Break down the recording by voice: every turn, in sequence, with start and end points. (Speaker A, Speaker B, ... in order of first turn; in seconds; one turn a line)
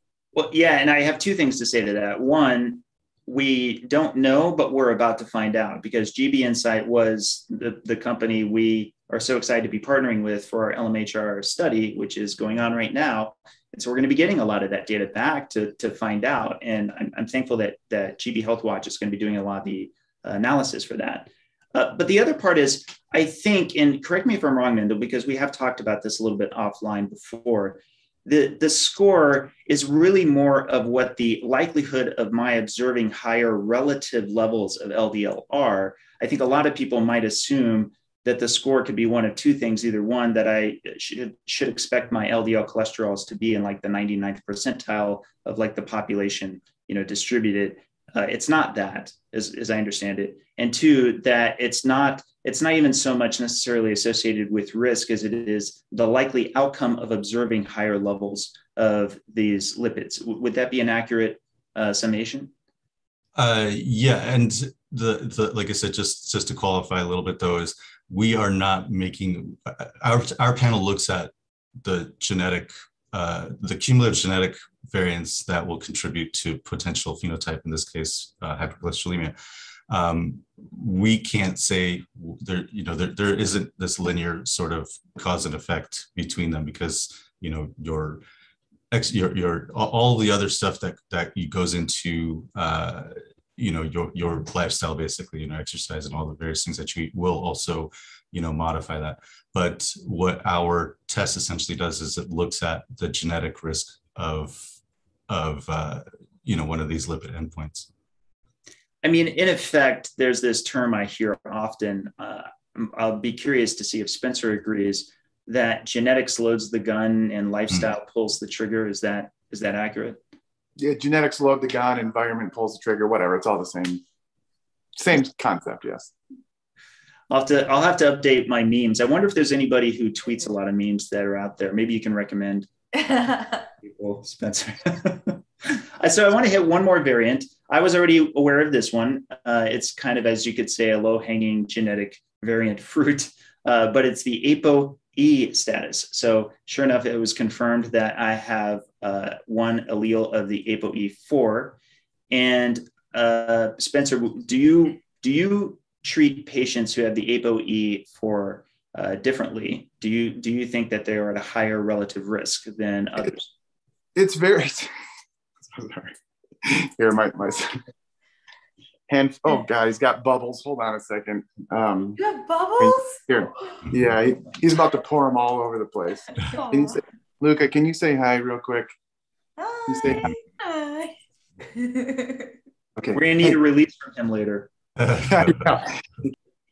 Speaker A: 0.3-62.5
Speaker B: 63.3-79.3
Speaker B: 79.9-88.2
Speaker B: 88.9-104.7
Speaker B: 105.3-107.9
Speaker A: 109.0-120.2
Speaker C: 120.8-124.0
Speaker C: 125.0-126.1
Speaker A: 127.3-132.7
Speaker A: 133.8-151.8
Speaker A: 152.3-163.5
Speaker C: 164.1-164.9
Speaker C: 165.7-166.1
Speaker C: 166.6-167.7
Speaker C: 169.1-172.2
Speaker D: 172.2-173.3
Speaker C: 172.8-178.9
Speaker D: 176.3-177.0
Speaker D: 179.6-181.1
Speaker C: 179.9-180.3
Speaker D: 181.7-182.5
Speaker C: 183.0-183.6
Speaker A: 183.1-184.7
Speaker B: 185.0-185.8
Speaker C: 185.3-185.9